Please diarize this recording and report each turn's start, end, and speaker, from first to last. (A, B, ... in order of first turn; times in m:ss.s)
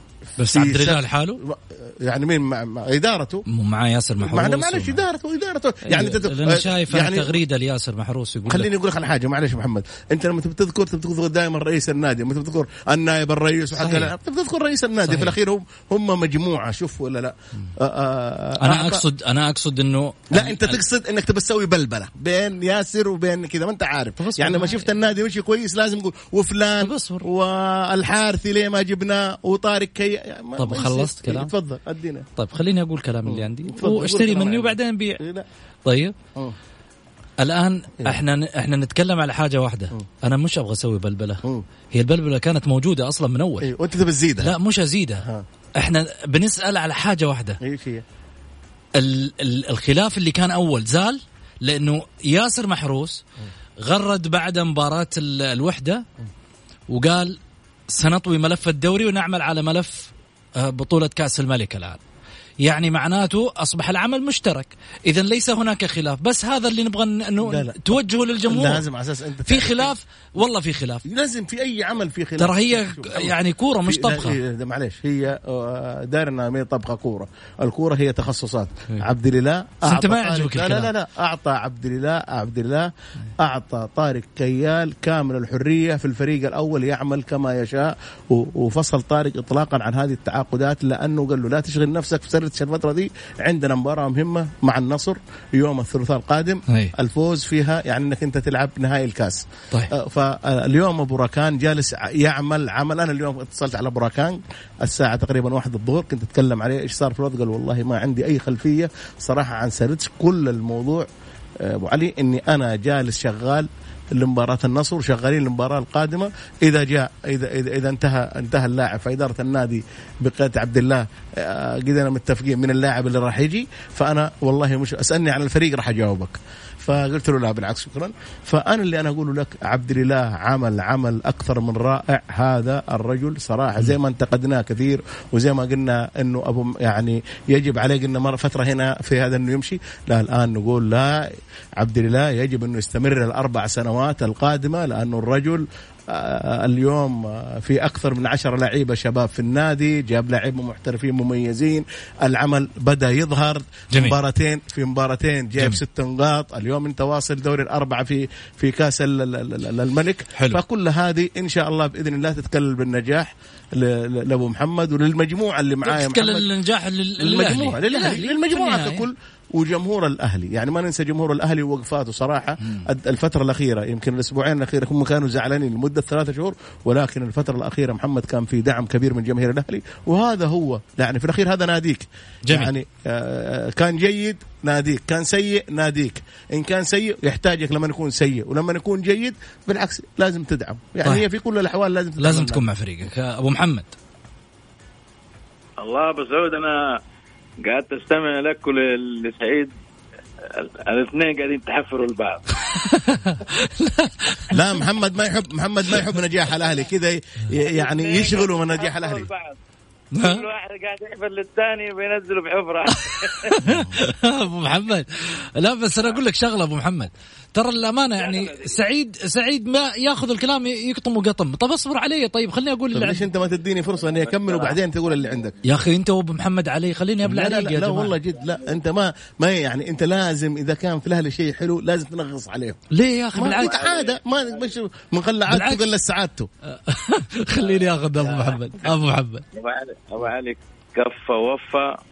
0:00.4-0:01.4 A
0:00.4-0:03.4 B
0:03.5-0:05.0 A
0:04.2-0:07.4 B
0:05.9-0:08.7 A
0:08.5-0:19.0 B
0:13.8-0:14.1 A
0:15.1-0:15.4 A
0:18.6-0:20.8 A
0:20.3-0:32.3 B
0:24.2-0:24.9 A
0:26.8-0:27.3 A
0:30.6-0:31.5 A
0:32.4-0:35.2 A
0:33.3-0:35.4 B
0:35.9-0:36.1 A
0:37.4-0:41.4 A
0:41.9-0:43.7 A
0:43.6-0:44.5 B
0:44.4-0:45.2 A
0:45.2-0:45.4 B
0:45.8-0:47.6 A
0:47.6-0:48.0 B
0:49.0-0:53.2 A
0:53.8-0:56.0 A
0:56.9-0:57.4 A
0:57.9-1:02.0 A
1:02.6-1:08.8 A
1:07.4-1:09.9 B
1:09.5-1:11.0 A
1:11.0-1:51.0 B
1:12.4-1:14.4 A
1:19.8-1:20.9 A
1:36.7-1:36.9 A
1:51.6-2:21.2 B
2:21.8-2:46.5 B
2:45.8-2:49.1 A
2:47.2-3:12.6 B
3:12.2-3:13.9 A
3:15.8-3:17.0 C
3:17.6-3:19.7 C
3:20.5-3:22.4 C
3:22.8-3:24.5 A
3:24.5-3:29.3 B
3:27.7-3:29.6 C
3:30.2-3:30.4 A
3:30.2-3:33.6 C
3:33.1-3:43.2 A
3:38.2-3:38.8 C
3:42.9-3:45.6 B
3:44.0-3:45.4 C
3:45.7-3:48.1 A
3:47.2-3:52.8 B
3:52.9-3:53.8 A
3:53.3-3:56.5 B
3:53.4-3:54.7 C
3:55.5-3:55.8 A
3:56.7-3:59.4 A
3:59.5-4:01.9 C